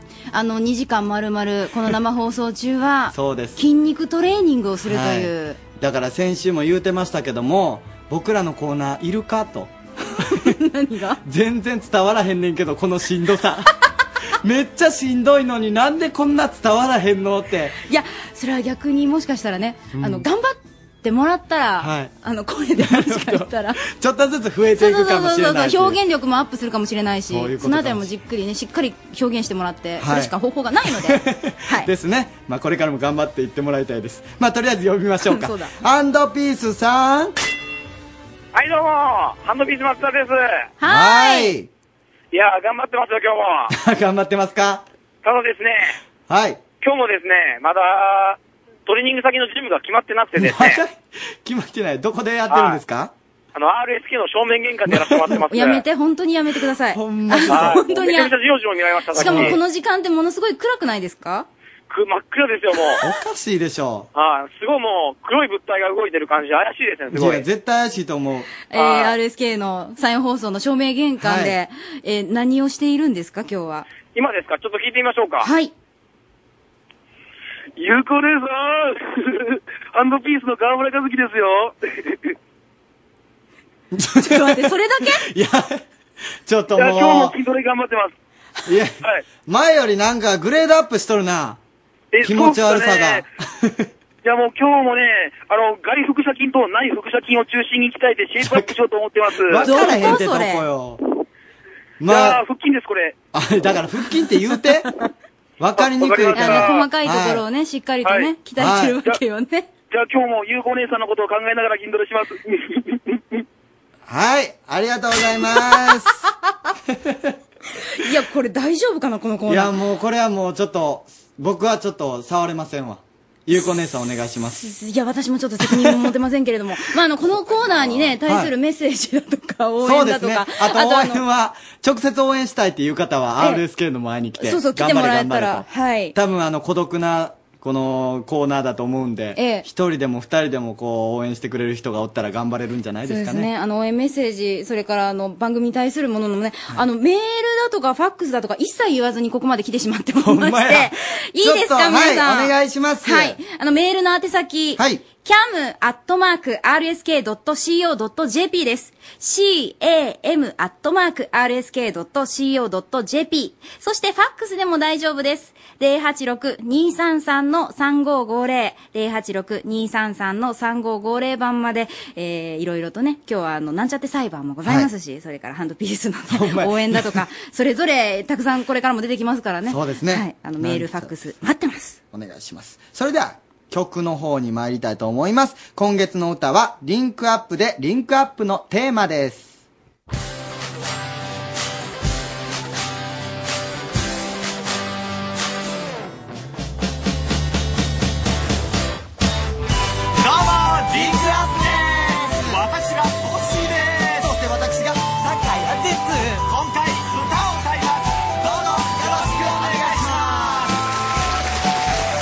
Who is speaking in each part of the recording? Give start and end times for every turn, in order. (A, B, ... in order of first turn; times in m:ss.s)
0:00.3-0:05.6 A
0:03.1-0:03.6 B
0:04.9-0:10.5 B
0:10.3-0:11.2 A
0:11.2-0:13.7 B
0:14.4-0:17.8 B
0:17.9-0:23.8 A
0:20.0-0:20.3 B
0:21.8-0:22.1 B
0:22.8-0:26.0 B
0:24.8-0:31.9 A
0:27.3-0:28.1 B
0:30.0-0:30.3 B
0:31.0-0:37.3 B
0:35.2-0:35.7 A
0:38.5-0:40.6 C
0:40.8-0:41.5 A
0:40.8-0:41.7 B
0:42.3-0:43.7 C
0:43.7-0:44.8 B
0:45.2-0:46.0 C
0:46.3-0:46.6 B
0:46.8-0:50.8 C
0:50.4-0:53.1 B
0:52.5-0:52.8 C
0:53.6-0:55.8 C
0:54.9-0:55.3 B
0:55.5-0:58.3 A
0:56.9-0:57.8 B
0:57.5-0:59.6 C
0:59.1-1:01.5 A
0:59.2-0:59.6 B
1:01.9-1:03.0 C
1:03.0-1:04.1 B
1:04.2-1:07.4 C
1:07.1-1:08.5 B
1:08.7-1:13.9 A
1:08.8-1:09.2 C
1:11.2-1:11.6 B
1:14.1-1:15.5 C
1:15.4-1:15.7 A
1:17.8-1:22.2 C
1:23.9-1:25.8 B
1:24.2-1:25.3 A
1:26.4-1:27.4 B
1:26.8-1:28.1 C
1:28.7-1:31.6 B
1:32.1-1:33.2 C
1:32.2-1:33.9 B
1:34.2-1:39.7 C
1:38.4-1:38.7 B
1:39.4-1:41.0 B
1:39.6-1:40.6 A
1:42.0-1:42.4 B
1:42.1-1:43.2 C
1:43.3-1:44.9 B
1:45.6-1:47.4 B
1:45.8-1:46.8 C
1:46.3-1:49.7 A
1:48.0-1:48.3 C
1:48.6-1:49.0 B
1:49.9-1:53.4 C
1:54.1-1:56.2 B
1:58.0-1:59.7 A
1:59.5-2:04.6 B
2:04.6-2:11.2 A
2:05.6-2:06.1 B
2:07.6-2:08.5 B
2:09.8-2:23.5 B
2:14.4-2:16.2 A
2:19.4-2:19.7 A
2:23.1-3:02.0 A
2:30.2-2:33.4 B
2:34.8-2:35.0 B
2:54.6-2:54.9 B
2:56.3-2:57.2 B
2:59.7-3:01.1 B
3:02.1-3:09.6 B
3:20.3-3:21.7 D
3:20.9-3:22.7 B
3:22.5-3:24.1 D
3:24.2-3:25.2 B
3:25.2-3:27.6 D
3:28.6-3:30.3 D
3:29.0-3:30.4 B